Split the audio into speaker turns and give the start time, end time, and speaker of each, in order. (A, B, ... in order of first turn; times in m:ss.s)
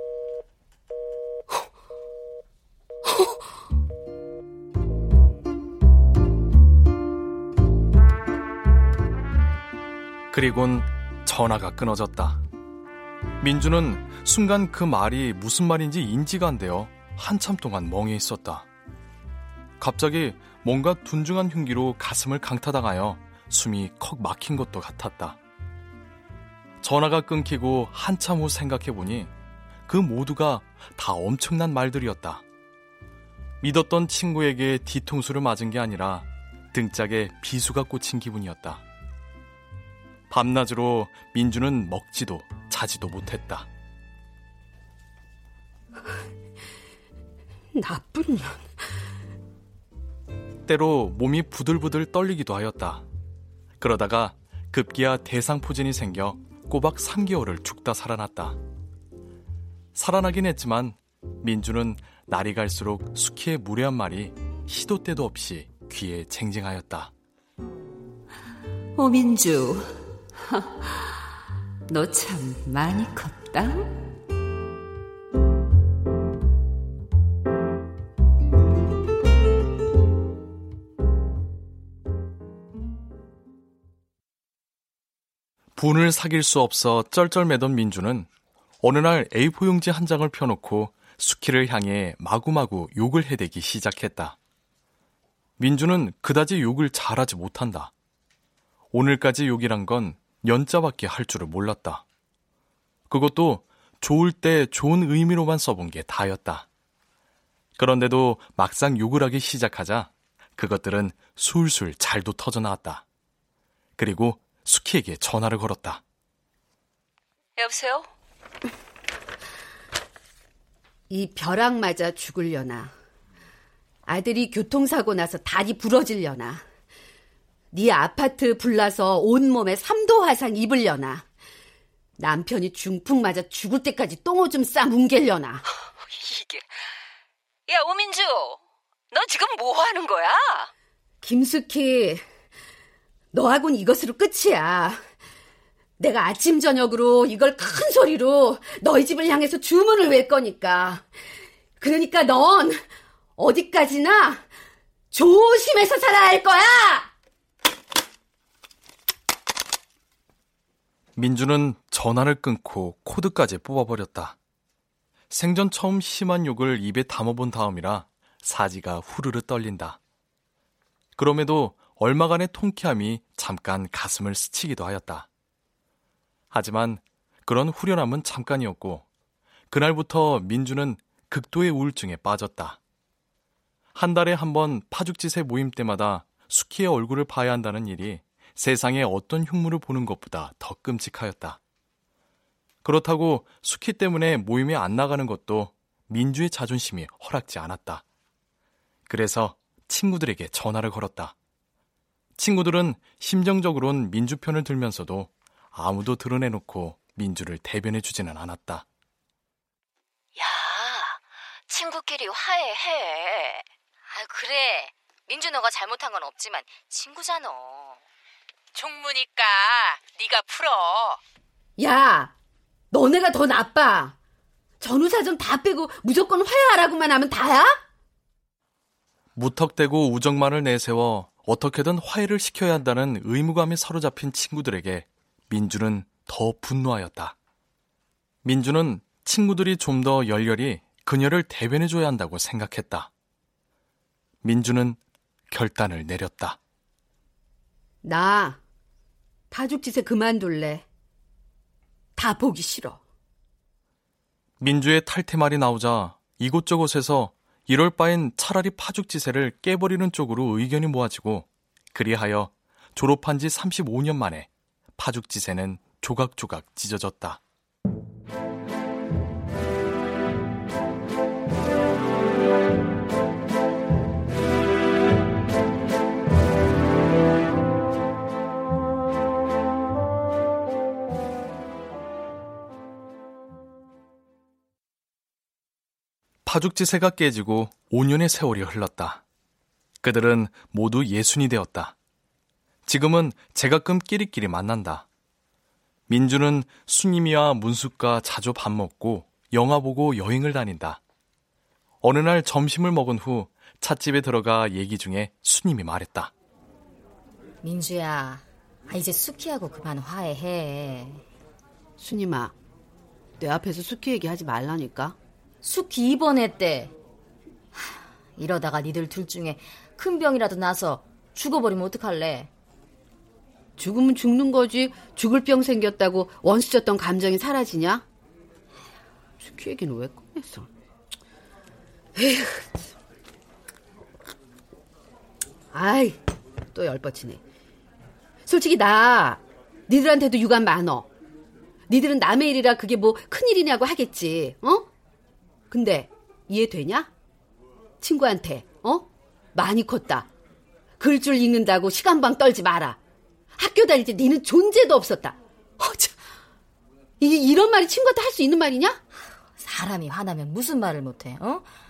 0:10.3-0:12.4 A
0:13.4-0:18.6 A
0:19.8-0:25.4 A
0:26.8-0:29.3 A
0:29.9-0:32.4 A
0:33.6-0:38.8 A
0:40.3-0:43.7 A
0:47.7-0:48.9 B
0:50.6-0:53.0 A
0:53.8-0:58.6 A
0:59.9-1:07.1 A
1:09.0-1:11.2 C
1:11.9-1:13.9 C
1:25.8-1:28.3 A
1:28.8-1:34.4 A
1:35.6-1:37.9 A
1:38.9-1:42.0 A
1:43.1-1:46.6 A
1:47.8-1:53.0 A
1:54.0-1:56.0 A
1:57.6-1:58.1 D
2:01.1-2:02.9 B
2:04.1-2:06.6 B
2:07.7-2:11.2 B
2:12.2-2:15.6 B
2:16.0-2:16.6 D
2:17.7-2:18.6 D
2:19.1-2:20.7 D
2:21.2-2:22.2 B
2:23.3-2:25.0 B
2:26.0-2:31.1 B
2:31.8-2:32.8 B
2:33.4-2:34.4 B
2:35.1-2:37.1 B
2:41.2-2:44.4 A
2:45.3-2:50.0 A
2:51.2-2:55.3 A
2:56.5-2:59.0 A
2:59.7-3:02.8 A
3:03.9-3:11.6 A
3:12.8-3:18.0 A
3:19.1-3:21.3 A
3:22.4-3:28.8 A
3:30.4-3:31.2 E
3:31.7-3:32.2 E
3:34.1-3:38.0 E
3:38.8-3:39.4 D
3:40.0-3:41.0 D
3:41.8-3:42.3 B
3:42.9-3:44.2 B
3:44.8-3:47.8 B
3:49.3-3:57.3 A
3:58.4-4:03.1 A
4:04.4-4:05.0 A
4:05.5-4:06.6 A
4:08.0-4:08.6 B
4:09.5-4:10.8 B
4:12.2-4:13.0 B
4:14.6-4:27.4 A
4:46.4-4:49.2 A
4:50.0-4:52.0 A
4:52.8-4:55.0 A
4:56.1-5:01.0 A
5:02.0-5:06.3 A
5:07.6-5:11.2 E
5:12.0-5:12.5 B
5:13.4-5:15.2 B
5:15.6-5:16.9 E
5:17.7-5:22.5 E
5:23.8-5:28.0 B
5:29.4-5:30.7 B
5:32.2-5:32.8 B
5:35.7-5:36.2 B
5:36.7-5:37.4 B
5:38.4-5:41.1 B
5:41.9-5:44.9 B
5:45.7-5:47.1 B
5:48.0-5:50.3 B
5:51.0-5:53.0 B
5:53.6-5:56.2 B
5:57.2-5:59.0 B
5:59.6-6:01.7 E